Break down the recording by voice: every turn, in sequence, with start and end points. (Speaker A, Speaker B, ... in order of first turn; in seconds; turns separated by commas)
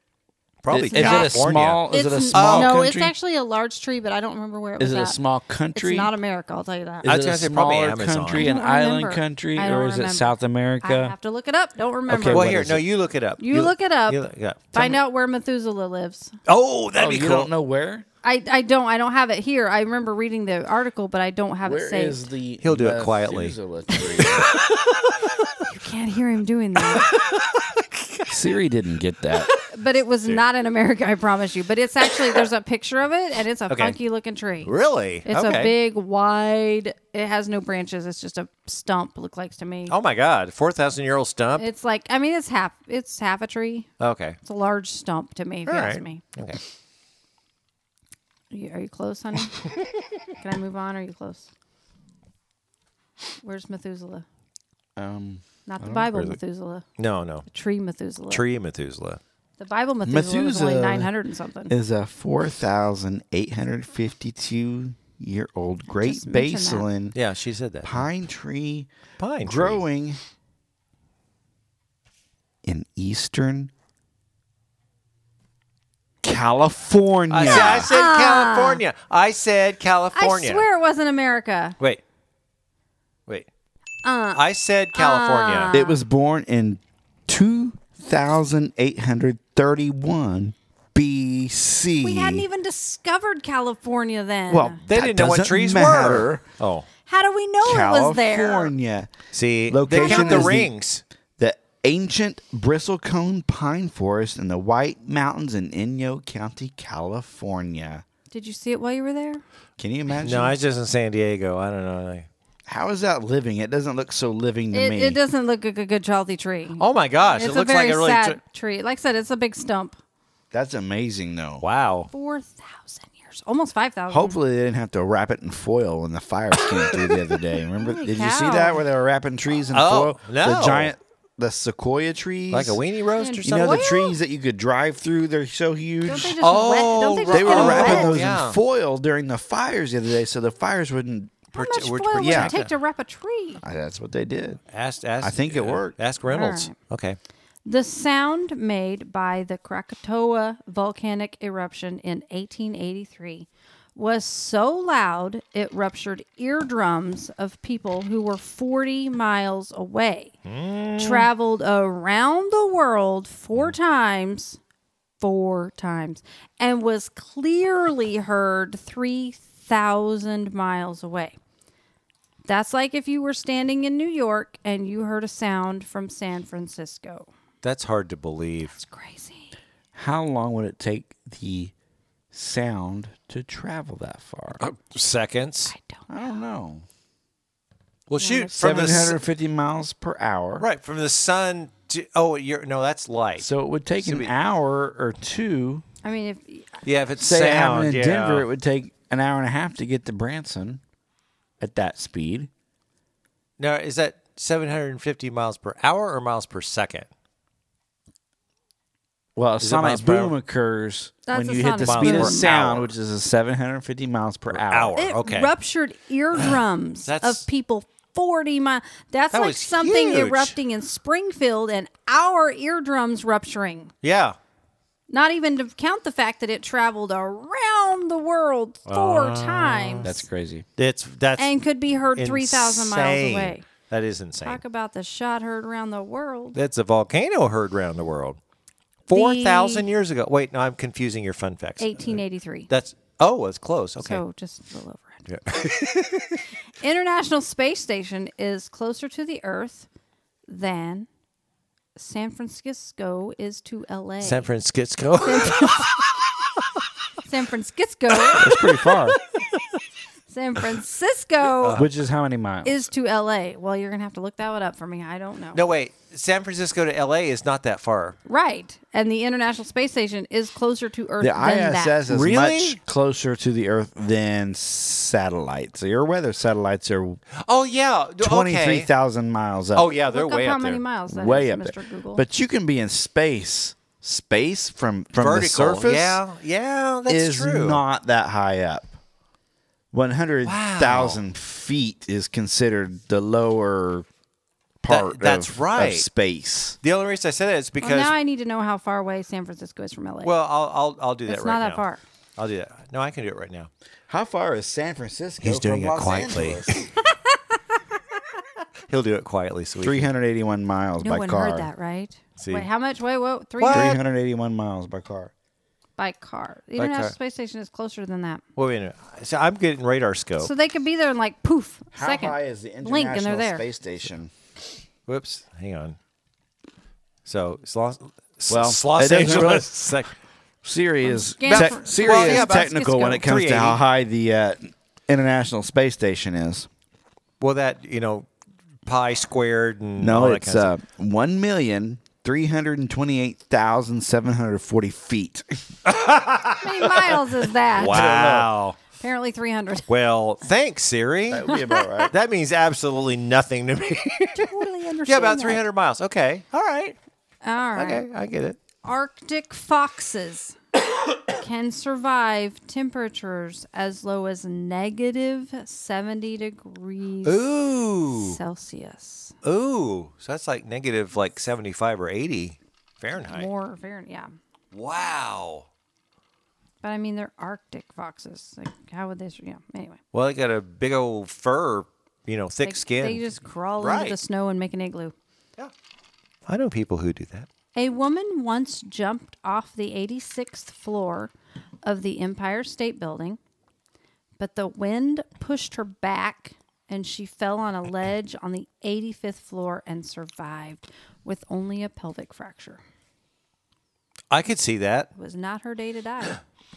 Speaker A: 0.6-2.8, Speaker B: 0.7-3.1, Speaker C: 0.9-5.2, Speaker B: 4.8-6.1, Speaker C: 5.7-7.1, Speaker B: 7.0-11.2, Speaker A: 7.0-8.5, Speaker C: 8.3-12.5, Speaker B: 12.1-12.8, Speaker A: 12.3-15.0, Speaker C: 13.4-16.4, Speaker A: 16.5-17.5, Speaker B: 17.0-18.1, Speaker C: 18.2-22.3, Speaker B: 21.6-24.5, Speaker A: 22.6-23.6, Speaker A: 24.2-25.6, Speaker C: 25.6-27.1, Speaker A: 26.9-28.4, Speaker B: 28.3-29.5, Speaker C: 29.6-34.7, Speaker A: 33.7-34.0, Speaker A: 34.6-35.7, Speaker C: 35.2-40.0, Speaker A: 39.9-41.7, Speaker C: 41.6-43.9, Speaker A: 44.0-44.4, Speaker C: 44.4-46.2, Speaker A: 45.7-46.6, Speaker C: 48.5-51.5, Speaker C: 53.4-54.3, Speaker B: 55.0-56.3, Speaker C: 55.7-56.9, Speaker A: 57.0-57.5, Speaker C: 57.5-58.5, Speaker A: 58.3-59.2, Speaker C: 59.6-61.7, Speaker B: 60.0-61.1, Speaker B: 61.7-67.2, Speaker C: 65.9-66.9, Speaker A: 67.1-68.0, Speaker B: 67.8-68.9, Speaker A: 69.2-69.8, Speaker B: 69.5-70.2, Speaker B: 72.6-73.7, Speaker B: 76.2-77.9, Speaker A: 77.3-80.7, Speaker C: 77.4-78.8, Speaker C: 80.2-81.8, Speaker C: 84.0-86.0, Speaker A: 84.3-85.7, Speaker B: 85.7-92.5, Speaker C: 92.0-94.8, Speaker B: 94.5-96.4, Speaker A: 94.9-96.9, Speaker C: 97.1-98.7, Speaker B: 97.6-99.1, Speaker A: 99.3-101.0, Speaker B: 99.7-100.7, Speaker C: 99.9-100.6, Speaker B: 101.4-108.0, Speaker C: 108.3-109.4, Speaker B: 109.8-110.5, Speaker A: 110.2-112.3, Speaker B: 112.7-115.2, Speaker C: 114.7-120.0, Speaker A: 116.8-118.4, Speaker B: 120.5-121.7, Speaker A: 121.6-122.1, Speaker C: 122.1-124.4, Speaker B: 124.1-132.8, Speaker C: 127.8-128.8, Speaker A: 129.7-130.9, Speaker A: 132.5-133.8, Speaker C: 133.2-134.2, Speaker B: 133.4-136.5, Speaker C: 136.1-138.2, Speaker A: 136.4-138.6, Speaker B: 137.3-141.5, Speaker A: 141.5-142.7, Speaker C: 141.6-143.6, Speaker B: 142.2-142.6, Speaker B: 143.6-144.6, Speaker A: 144.7-147.2, Speaker B: 145.2-146.0, Speaker C: 146.3-146.7, Speaker C: 147.7-160.4, Speaker A: 160.5-161.3, Speaker C: 161.0-164.6, Speaker C: 165.2-171.4, Speaker C: 172.5-177.3, Speaker A: 177.6-178.8, Speaker C: 178.8-179.6, Speaker B: 179.9-181.7, Speaker B: 182.3-184.6, Speaker A: 184.6-185.7, Speaker C: 185.7-186.3, Speaker B: 186.1-186.8, Speaker A: 188.1-189.2, Speaker C: 188.2-189.1, Speaker B: 188.5-190.7, Speaker A: 190.6-193.5, Speaker B: 193.4-195.8, Speaker A: 194.0-194.3, Speaker C: 196.0-196.8, Speaker A: 196.8-198.5, Speaker B: 197.2-200.8, Speaker B: 201.6-202.5, Speaker A: 203.6-207.1, Speaker B: 209.3-215.0, Speaker A: 209.6-210.3, Speaker C: 211.3-212.5, Speaker A: 211.8-212.9, Speaker A: 214.5-215.5, Speaker C: 215.0-223.9, Speaker A: 217.1-217.4, Speaker A: 219.3-220.5, Speaker A: 224.0-224.4, Speaker C: 225.1-230.2, Speaker A: 228.9-230.2, Speaker B: 230.0-230.7, Speaker A: 230.8-231.5, Speaker C: 231.4-233.7, Speaker A: 232.2-234.6, Speaker C: 234.4-236.6, Speaker A: 236.5-238.4, Speaker A: 239.1-244.2, Speaker C: 239.1-239.9, Speaker C: 241.8-242.7, Speaker C: 244.0-245.2, Speaker A: 245.3-246.4, Speaker C: 246.8-249.9, Speaker C: 250.5-251.1, Speaker C: 252.0-254.5, Speaker A: 254.2-256.3, Speaker C: 255.2-256.0, Speaker C: 257.2-258.6, Speaker B: 258.4-259.2, Speaker C: 260.3-261.8, Speaker A: 261.6-261.9, Speaker B: 261.7-262.8, Speaker C: 262.6-265.6, Speaker A: 265.5-268.2, Speaker C: 268.3-272.0, Speaker B: 271.2-277.2, Speaker A: 272.1-272.8, Speaker A: 277.4-278.9, Speaker B: 278.2-279.9, Speaker A: 279.8-280.8, Speaker C: 280.1-282.2, Speaker B: 281.1-286.2, Speaker A: 285.2-287.8, Speaker B: 287.1-288.9, Speaker B: 289.9-294.1, Speaker A: 290.4-291.2, Speaker B: 294.8-296.8, Speaker A: 294.9-296.1, Speaker A: 296.8-298.1, Speaker C: 297.8-300.3, Speaker A: 300.2-301.9, Speaker C: 301.3-302.0, Speaker A: 302.4-303.7, Speaker B: 304.1-306.9, Speaker A: 305.4-306.9, Speaker A: 308.9-310.1, Speaker B: 309.8-311.7, Speaker C: 311.0-314.0, Speaker A: 312.4-312.7, Speaker A: 313.6-313.9, Speaker B: 313.7-315.3, Speaker C: 316.0-318.4, Speaker A: 316.8-317.1, Speaker A: 318.6-320.5, Speaker C: 320.4-323.6, Speaker B: 321.9-324.3, Speaker A: 325.1-326.0, Speaker A: 327.2-330.2, Speaker B: 328.5-329.9, Speaker B: 330.6-336.7, Speaker C: 331.0-333.2, Speaker A: 331.5-333.8, Speaker A: 337.4-338.3, Speaker A: 338.9-340.7, Speaker B: 340.0-345.6, Speaker A: 345.9-347.1, Speaker C: 346.6-348.1, Speaker A: 347.7-348.8, Speaker B: 347.8-348.5, Speaker C: 348.9-349.9, Speaker A: 349.9-351.6, Speaker B: 351.3-352.1, Speaker C: 351.5-352.1, Speaker A: 352.1-357.0, Speaker C: 354.4-355.6, Speaker C: 357.4-358.1, Speaker A: 357.8-358.6, Speaker C: 358.8-360.6, Speaker C: 361.2-367.4, Speaker A: 367.2-368.4, Speaker C: 368.1-369.4, Speaker A: 369.4-373.5, Speaker C: 373.3-374.3, Speaker A: 374.7-375.7, Speaker C: 376.8-380.0, Speaker A: 380.1-383.3, Speaker C: 382.6-385.1, Speaker A: 383.8-384.2, Speaker A: 386.5-387.5, Speaker C: 387.8-391.3, Speaker C: 391.8-393.4, Speaker C: 394.4-402.8, Speaker A: 404.3-405.1, Speaker C: 405.1-406.4